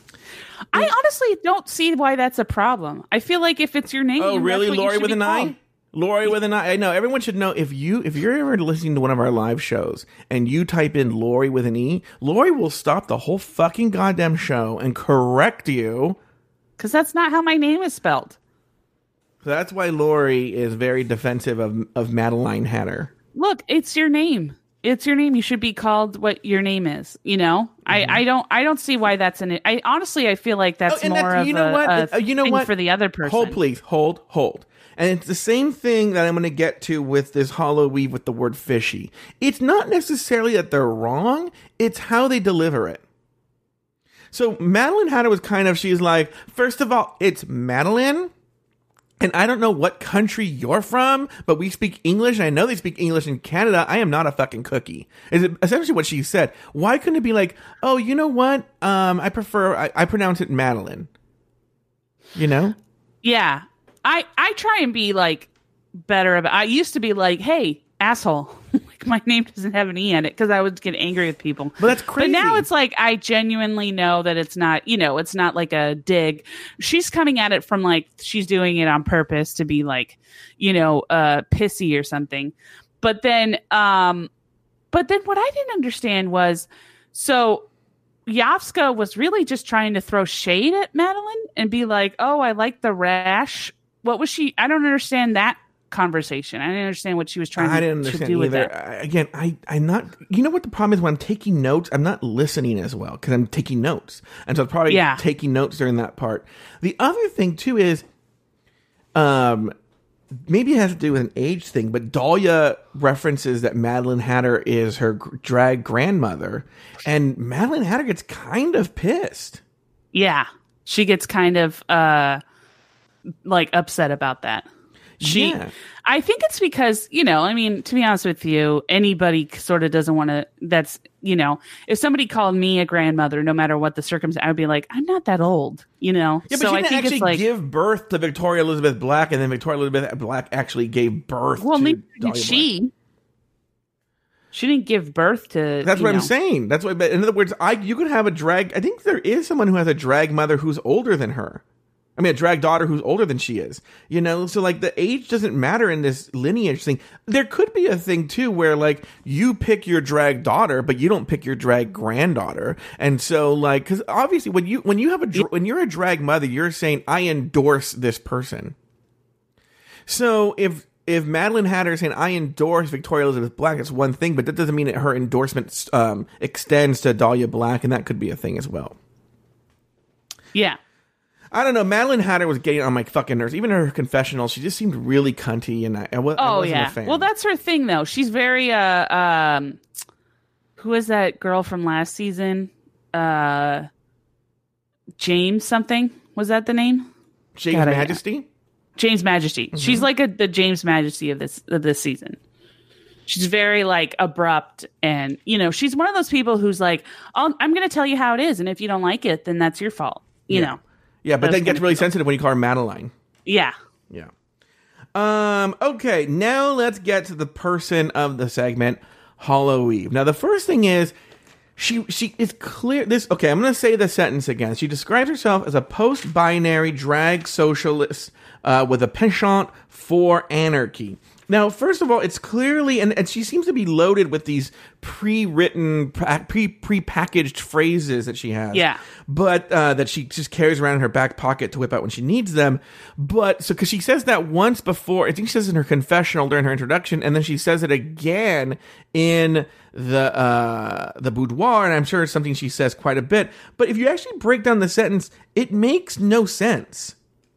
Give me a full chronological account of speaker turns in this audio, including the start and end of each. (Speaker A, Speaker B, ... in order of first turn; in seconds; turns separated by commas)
Speaker A: 0.7-5.5, Speaker B: 4.2-16.2, Speaker A: 16.8-18.4, Speaker B: 19.4-23.1, Speaker A: 23.4-33.6, Speaker B: 27.9-28.2, Speaker B: 30.9-32.7, Speaker B: 33.2-43.0, Speaker B: 44.3-48.3, Speaker B: 49.2-61.1, Speaker B: 62.4-62.8, Speaker A: 63.2-65.5, Speaker A: 66.1-84.3, Speaker B: 71.8-72.7, Speaker A: 84.9-87.7, Speaker A: 88.3-98.7, Speaker B: 97.6-108.0, Speaker A: 104.9-105.2, Speaker B: 109.2-109.7, Speaker B: 110.3-119.6, Speaker A: 120.1-122.4, Speaker A: 123.4-124.7, Speaker B: 125.2-125.7, Speaker A: 125.2-137.4, Speaker B: 136.5-142.7, Speaker A: 141.6-142.9, Speaker A: 144.5-146.3, Speaker B: 145.8-151.6, Speaker B: 152.2-168.8, Speaker B: 170.1-179.0, Speaker A: 180.5-180.8, Speaker B: 181.5-187.3, Speaker A: 186.4-189.8, Speaker A: 190.8-193.9, Speaker A: 195.2-197.1, Speaker B: 197.6-198.5, Speaker A: 197.7-198.2, Speaker A: 199.0-202.4, Speaker B: 199.7-200.1, Speaker A: 203.3-210.8, Speaker B: 210.5-213.1, Speaker A: 211.4-212.1, Speaker A: 213.5-213.7, Speaker B: 215.1-221.1, Speaker B: 221.8-257.2, Speaker A: 238.7-239.0